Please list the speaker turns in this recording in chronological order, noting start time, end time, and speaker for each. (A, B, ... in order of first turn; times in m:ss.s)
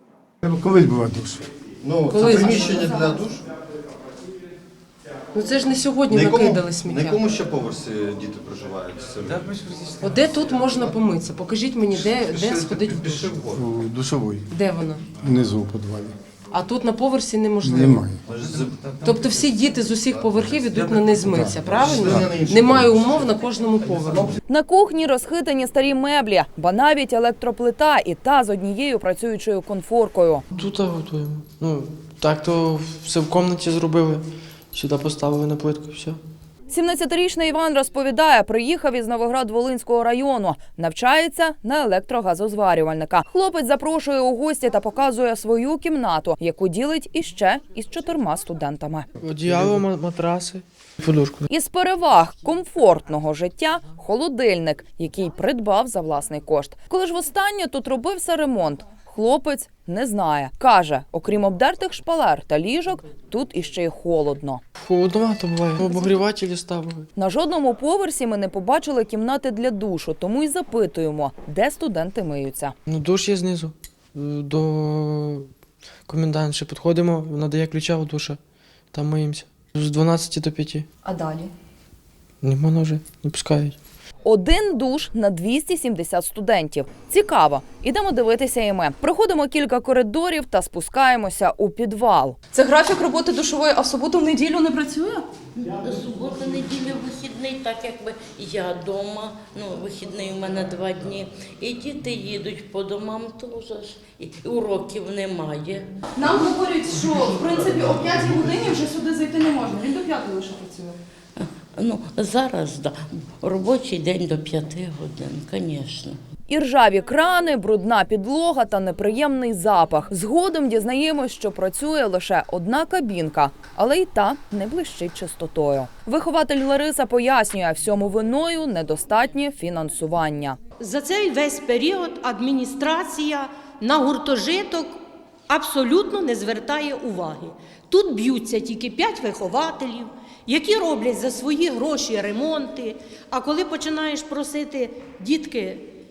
0:00.4-0:01.4 A
0:01.8-0:03.4 B
0:02.1-0:03.0 C
0:05.3-0:07.2 C
0:06.1-0:11.0 B
0:10.0-0:13.4 C
0:12.0-0:13.7 B
0:13.5-0:14.4 A
0:14.5-0:15.1 C
0:15.2-0:16.1 A
0:16.5-0:18.1 C
0:17.8-0:18.1 A
0:17.9-0:23.3 B
0:19.0-0:24.4 C
0:24.5-0:30.4 D
0:30.5-0:36.2 E
0:36.7-0:49.1 D
0:49.2-0:51.4 E
0:51.5-1:04.6 D
1:04.8-1:07.1 E
1:07.2-1:12.8 D
1:12.9-1:15.5 E
1:16.1-1:18.4 E
1:18.9-1:20.9 E
1:21.0-1:21.5 F
1:22.4-1:23.8 E
1:24.2-1:32.4 D
1:32.5-1:35.3 F
1:35.6-1:45.9 G
1:46.2-1:51.0 F
1:51.4-1:56.2 G
1:56.5-2:10.6 D
2:10.8-2:14.9 H
2:15.5-2:25.9 H